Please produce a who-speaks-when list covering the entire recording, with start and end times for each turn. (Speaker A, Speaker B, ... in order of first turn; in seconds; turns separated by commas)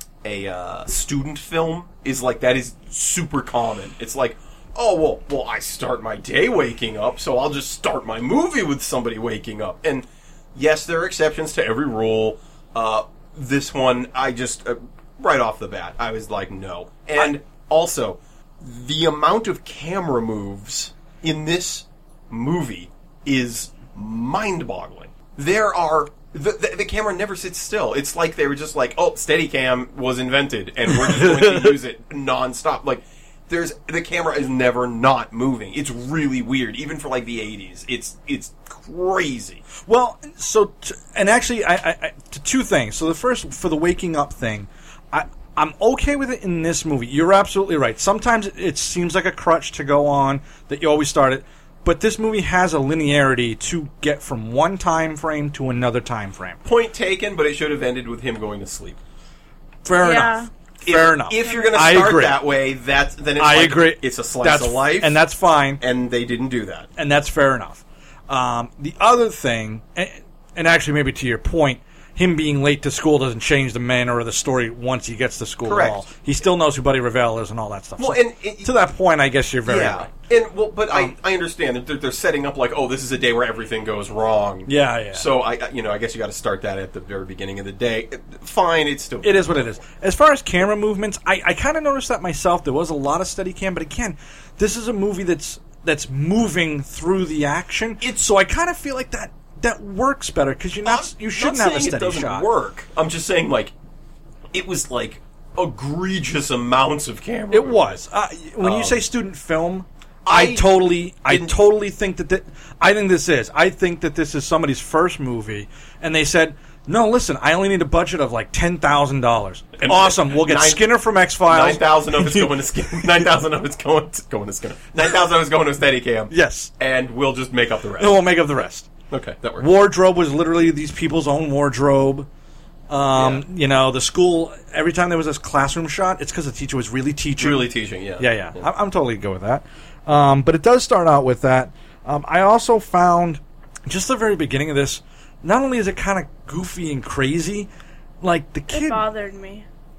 Speaker A: 0.2-39.6, Speaker B: 31.0-31.7, Speaker B: 39.8-56.6, Speaker A: 56.6-59.0, Speaker B: 59.9-62.4, Speaker C: 60.0-60.5, Speaker A: 60.8-65.2, Speaker C: 61.5-61.9, Speaker B: 63.4-65.8, Speaker A: 65.8-66.9, Speaker B: 67.0-80.1, Speaker A: 75.7-76.0, Speaker A: 78.0-78.7, Speaker A: 79.7-89.8, Speaker B: 84.7-85.3, Speaker B: 89.2-102.5, Speaker A: 100.8-103.7, Speaker A: 104.5-108.0, Speaker B: 107.5-123.2, Speaker A: 108.6-109.0, Speaker A: 110.3-111.6, Speaker A: 119.8-128.3, Speaker B: 126.3-126.7, Speaker B: 128.0-128.9, Speaker A: 129.1-129.7, Speaker B: 129.6-132.3, Speaker B: 132.9-147.7, Speaker A: 133.2-133.4, Speaker A: 137.4-138.7, Speaker B: 148.2-149.0, Speaker C: 148.7-149.7